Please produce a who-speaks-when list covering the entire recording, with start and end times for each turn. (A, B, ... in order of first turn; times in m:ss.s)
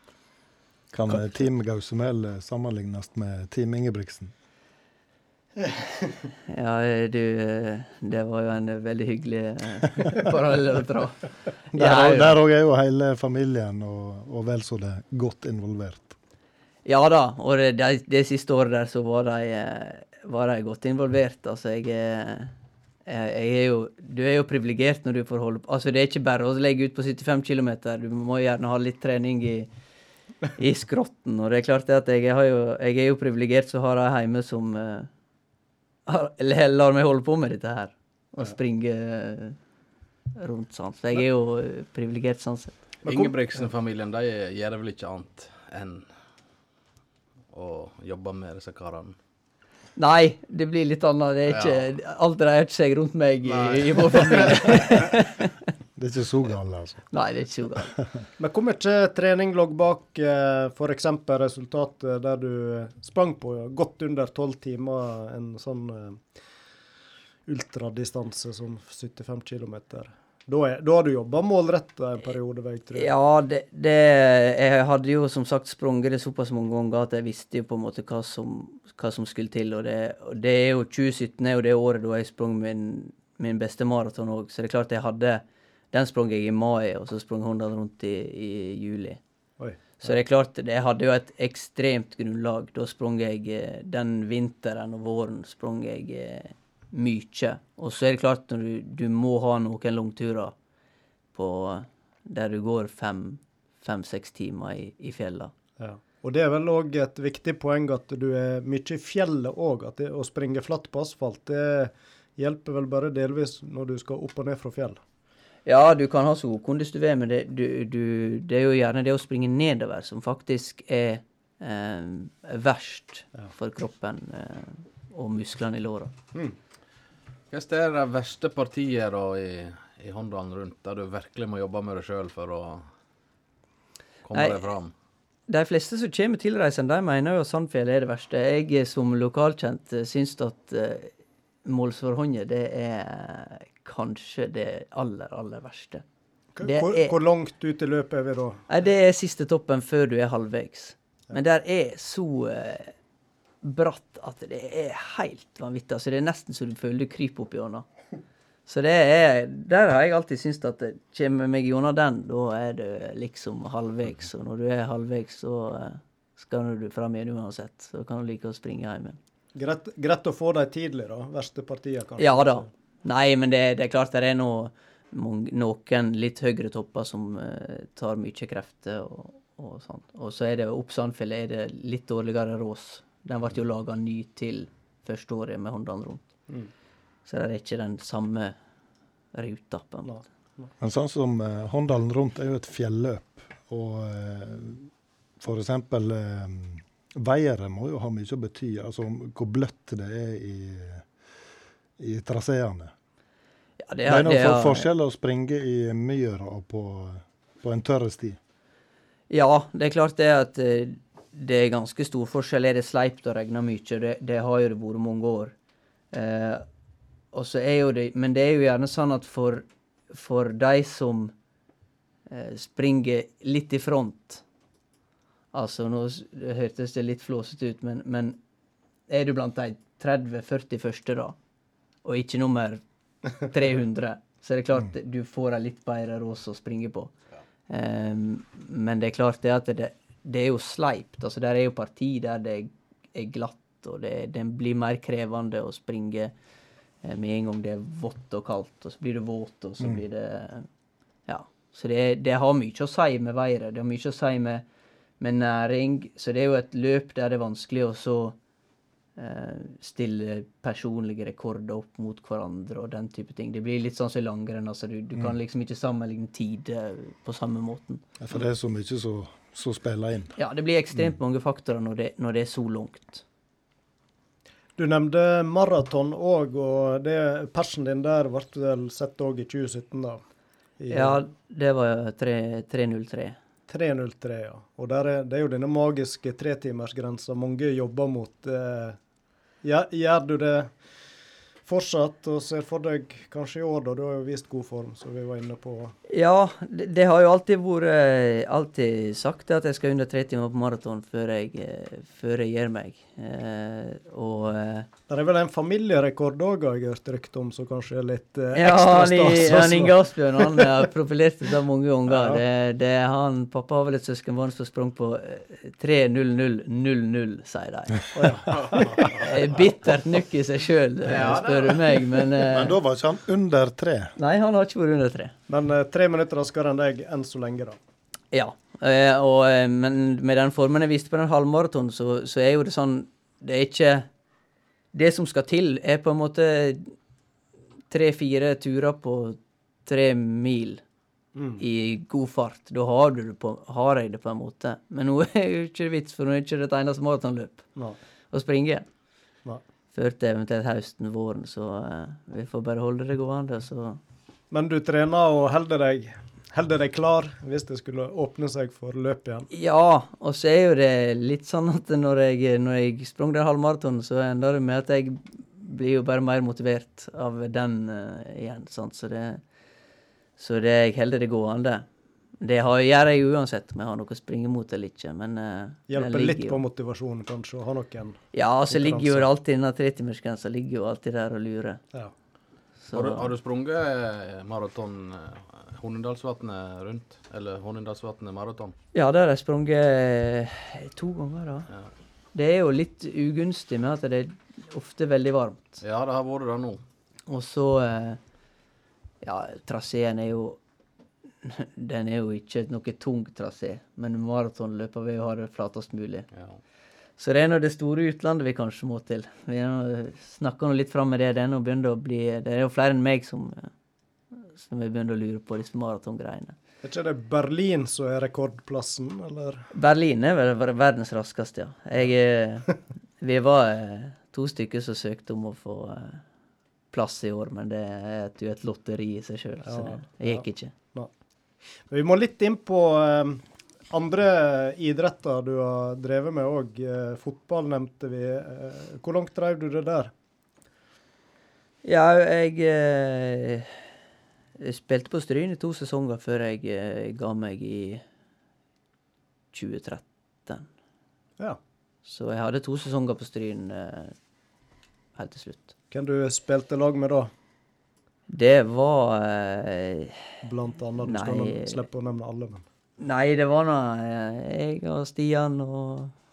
0:00.9-0:04.3 A
0:06.5-0:12.4 B
0:11.7-0:16.2 A
0:16.8-0:22.5 B
0:23.1-0:29.7 B
0:30.6-0:35.1 B
0:36.1-0:39.6 B
0:40.4-0:42.7 B
0:43.0-0:46.1 C
0:43.1-0:43.3 D
0:47.5-0:49.2 C
0:50.0-0:55.5 B
0:51.5-0:51.8 C
0:53.5-0:54.9 C
0:56.0-0:57.0 A
0:57.1-0:57.9 B
0:58.4-1:06.2 D
1:07.5-1:13.1 D
1:13.0-1:29.2 B
1:29.6-1:30.1 D
1:30.0-1:40.6 B
1:41.3-1:45.5 B
1:45.8-1:55.0 D
1:55.7-2:06.1 B
2:07.5-2:12.8 C
2:14.2-2:14.9 C
2:14.3-2:14.7 B
2:15.5-2:21.1 B
2:21.6-2:26.0 B
2:26.6-2:28.7 D
2:26.6-2:27.2 B
2:28.7-2:32.9 B
2:33.6-2:37.8 B
2:38.7-2:49.2 B
2:49.6-2:52.7 D
2:52.2-3:06.3 B
3:07.3-3:08.6 B
3:09.3-3:10.2 B
3:10.0-3:10.7 D
3:10.8-3:21.1 A
3:22.0-3:22.9 A
3:23.8-3:24.9 B
3:24.1-3:28.4 A
3:29.3-3:35.5 B
3:36.1-3:36.6 B
3:37.3-3:41.3 B
3:42.3-3:44.4 B
3:45.5-3:48.4 B
3:49.1-3:51.4 B
3:52.0-3:52.8 B
3:53.4-3:57.1 B
3:57.7-4:06.3 B
4:07.0-4:10.7 B
4:11.3-4:14.6 B
4:15.2-4:18.4 B
4:19.2-4:28.0 B
4:28.2-4:30.3 A
4:30.4-4:33.2 B
4:34.8-4:40.2 D
4:40.8-4:41.2 D
4:40.9-4:43.4 B
4:43.7-4:49.0 D
4:49.6-4:50.7 D
4:51.7-4:55.9 D
4:56.1-5:04.9 B
5:05.1-5:10.8 D
5:08.5-5:22.8 B
5:12.1-5:12.4 D
5:18.1-5:19.3 D
5:18.6-5:18.9 C
5:21.1-5:22.2 D
5:22.5-5:24.1 A
5:24.2-5:25.4 B
5:25.5-5:27.8 D
5:28.3-5:34.1 B
5:34.9-5:36.9 B
5:37.9-5:40.8 B
5:41.4-5:41.6 D
5:41.6-5:47.6 B
5:48.3-5:48.9 B
5:49.9-5:54.0 B
5:54.5-5:59.5 D
5:59.5-6:09.4 B
6:10.4-6:11.9 B
6:12.4-6:16.6 B
6:15.9-6:19.3 D
6:18.3-6:21.8 B
6:22.8-6:23.3 B
6:22.9-6:28.7 C
6:28.9-6:31.7 B
6:32.3-6:35.8 B
6:35.8-6:36.8 C
6:37.3-6:38.2 B
6:39.2-6:40.6 B
6:41.4-6:46.3 B
6:47.2-6:53.7 B
6:54.5-6:56.6 B
6:56.8-6:59.7 D
6:59.7-7:06.2 B
7:06.9-7:10.7 B
7:09.6-7:11.1 D
7:11.9-7:20.1 D
7:21.8-7:23.8 B
7:24.6-7:28.0 B
7:29.5-7:30.7 B
7:32.0-7:34.2 B
7:35.2-7:35.7 B
7:35.9-7:37.3 D
7:38.3-7:40.2 B
7:40.4-7:42.6 D
7:41.0-7:41.8 B
7:43.0-7:46.1 B